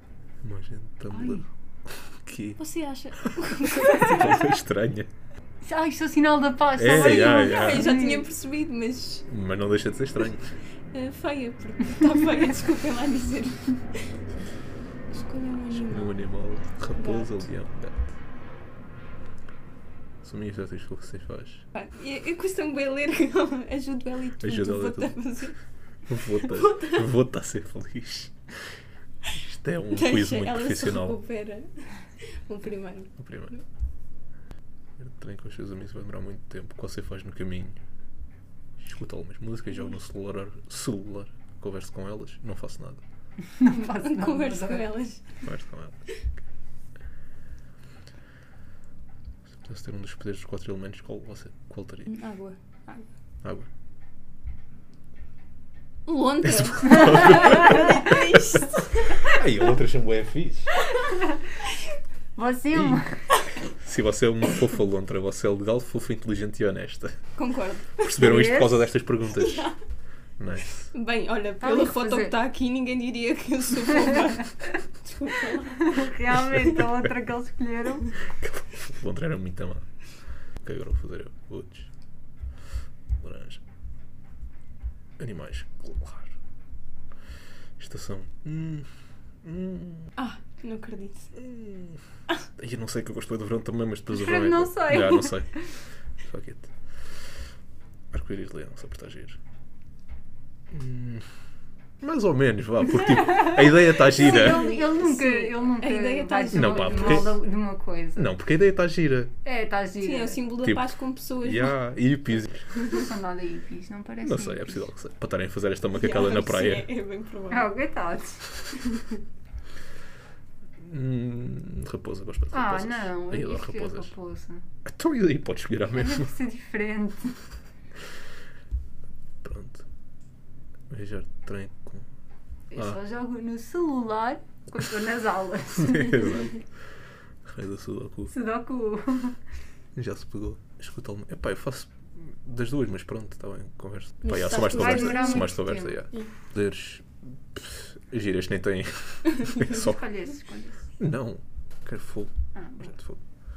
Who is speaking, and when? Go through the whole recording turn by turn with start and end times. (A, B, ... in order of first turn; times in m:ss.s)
0:00.4-0:02.6 A
0:01.1-0:01.5 B
0:02.6-0:04.5 C
0:03.9-0:05.1 A
0:05.6-0:08.3 B
0:06.8-0:07.9 A
0:06.8-0:09.3 C
0:09.3-0:10.5 A
0:10.9-0:14.0 C
0:15.1-0:16.2 C
0:15.7-0:18.0 A
0:17.0-0:17.5 C
0:20.2-0:21.6 A
0:21.7-0:25.6 C
0:24.4-0:25.2 A
0:26.1-0:28.4 A
0:26.4-0:27.0 C
0:29.3-0:31.2 A
0:29.9-0:33.6 C
0:33.2-0:33.5 A
0:35.0-0:37.8 A
0:38.8-0:43.0 A
0:43.6-0:44.9 B
0:43.7-0:45.4 C
0:45.4-0:46.0 A
0:49.6-0:52.1 A
0:52.1-0:53.1 C
0:56.1-0:59.4 C
0:56.4-0:58.2 A
0:57.6-0:57.9 B
0:59.2-1:00.7 A
1:02.4-1:03.2 B
1:02.7-1:03.1 A
1:03.8-1:07.2 A
1:07.4-1:08.2 C
1:08.0-1:09.7 A
1:08.2-1:08.9 B
1:09.3-1:09.8 C
1:10.4-1:10.9 A
1:10.9-1:16.0 C
1:11.6-1:12.3 B
1:15.8-1:18.1 B
1:18.3-1:19.9 A
1:20.6-1:21.9 A
1:23.2-1:23.6 A
1:25.2-1:26.4 A
1:27.8-1:28.9 A
1:29.4-1:30.1 A
1:30.2-1:31.3 C
1:31.4-1:32.0 A
1:32.6-1:35.5 A
1:34.1-1:35.8 B
1:36.2-1:36.7 A
1:38.1-1:39.4 A
1:40.7-1:41.2 A
1:42.0-1:44.7 A
1:44.1-1:48.3 B
1:44.2-1:47.4 C
1:46.5-1:47.4 A
1:48.2-1:49.3 A
1:49.4-1:50.4 B
1:50.0-1:51.7 C
1:50.6-1:52.8 A
1:52.9-1:54.8 B
1:54.2-1:56.9 A
1:56.0-1:57.7 C
1:57.5-1:58.4 B
2:00.8-2:04.1 A
2:02.5-2:04.6 B
2:04.8-2:06.3 A
2:05.9-2:07.4 B
2:09.4-2:09.8 A
2:10.9-2:12.1 A
2:12.7-2:16.5 B
2:15.8-2:16.6 A
2:17.4-2:18.3 A
2:18.3-2:19.4 B
2:20.0-2:30.0 A
2:24.2-2:25.6 C
2:24.5-2:26.0 B
2:29.6-2:30.9 B
2:31.0-2:33.2 A
2:32.6-2:32.9 B